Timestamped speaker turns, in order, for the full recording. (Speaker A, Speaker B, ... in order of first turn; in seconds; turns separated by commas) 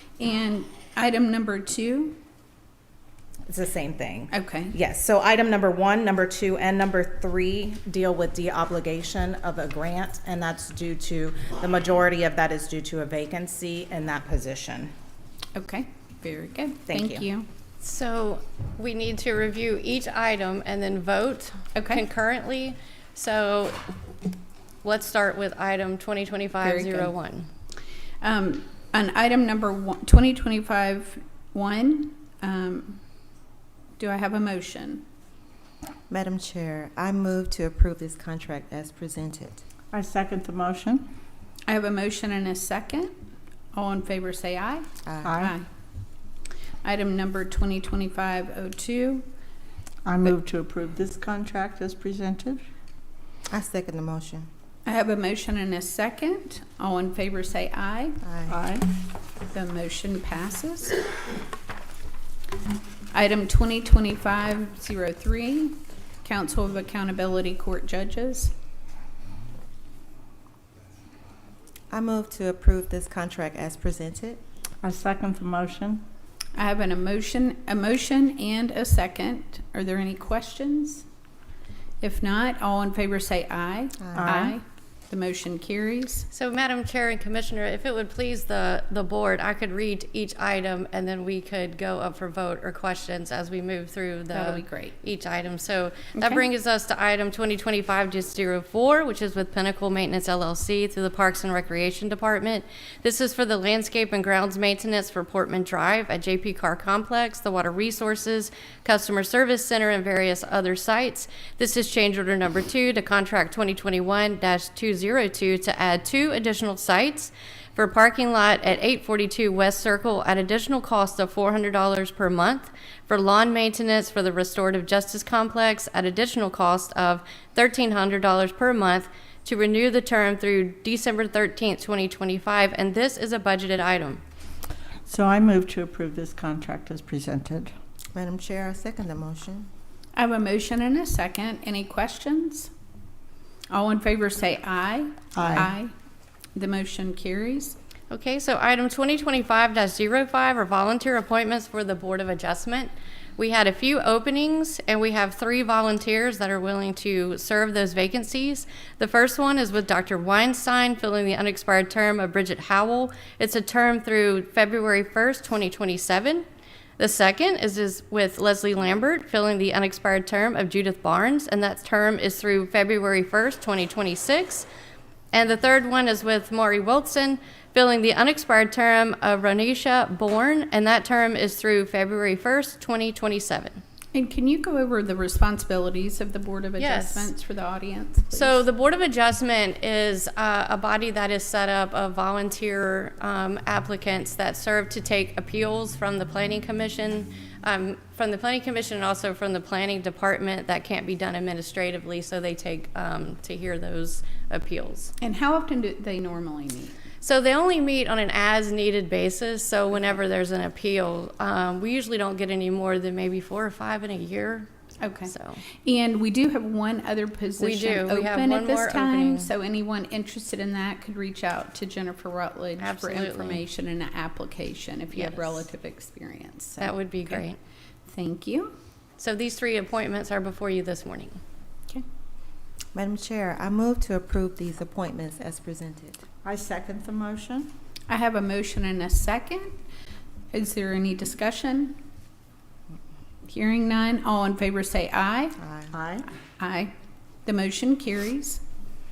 Speaker A: 0.2-2.2, Speaker B: 3.5-14.9, Speaker A: 4.3-4.8, Speaker A: 15.6-17.5, Speaker B: 16.9-17.3, Speaker C: 17.8-23.8, Speaker A: 21.8-22.0, Speaker C: 24.8-27.5, Speaker A: 26.6-27.1, Speaker A: 28.2-33.0, Speaker A: 34.0-35.0, Speaker D: 36.1-39.6, Speaker E: 39.9-41.1, Speaker A: 41.7-43.1, Speaker A: 43.7-45.7, Speaker D: 45.0-45.4, Speaker E: 45.2-45.5, Speaker A: 46.8-49.3, Speaker E: 50.1-52.6, Speaker D: 53.5-54.5, Speaker A: 54.9-58.2, Speaker D: 58.2-58.6, Speaker E: 58.5-58.9, Speaker A: 59.5-61.0, Speaker A: 63.1-68.5, Speaker D: 71.9-74.4, Speaker E: 74.8-76.0, Speaker A: 76.6-81.0, Speaker A: 82.0-86.3, Speaker D: 84.0-84.3, Speaker E: 84.2-84.6, Speaker C: 86.3-134.2, Speaker A: 94.3-95.0, Speaker A: 96.2-96.5, Speaker E: 135.1-137.7, Speaker D: 138.2-139.7, Speaker A: 140.2-142.7, Speaker A: 143.7-145.9, Speaker E: 145.3-145.7, Speaker A: 146.6-147.8, Speaker C: 148.1-166.4, Speaker C: 167.0-174.7, Speaker C: 175.3-183.8, Speaker A: 184.1-188.6, Speaker C: 186.8-187.3, Speaker C: 188.3-205.1, Speaker A: 205.2-206.9, Speaker C: 207.2-214.7, Speaker A: 215.0-227.5, Speaker C: 215.3-215.6, Speaker C: 217.6-219.5, Speaker C: 222.8-223.7, Speaker C: 225.1-225.7, Speaker C: 226.8-227.6, Speaker A: 228.1-228.7, Speaker C: 229.2-231.4, Speaker D: 232.9-236.2, Speaker E: 236.4-237.7, Speaker A: 238.1-239.8, Speaker A: 240.5-242.0, Speaker A: 243.4-245.6, Speaker D: 245.6-245.9, Speaker E: 245.9-246.3, Speaker A: 246.6-246.9, Speaker A: 247.4-248.6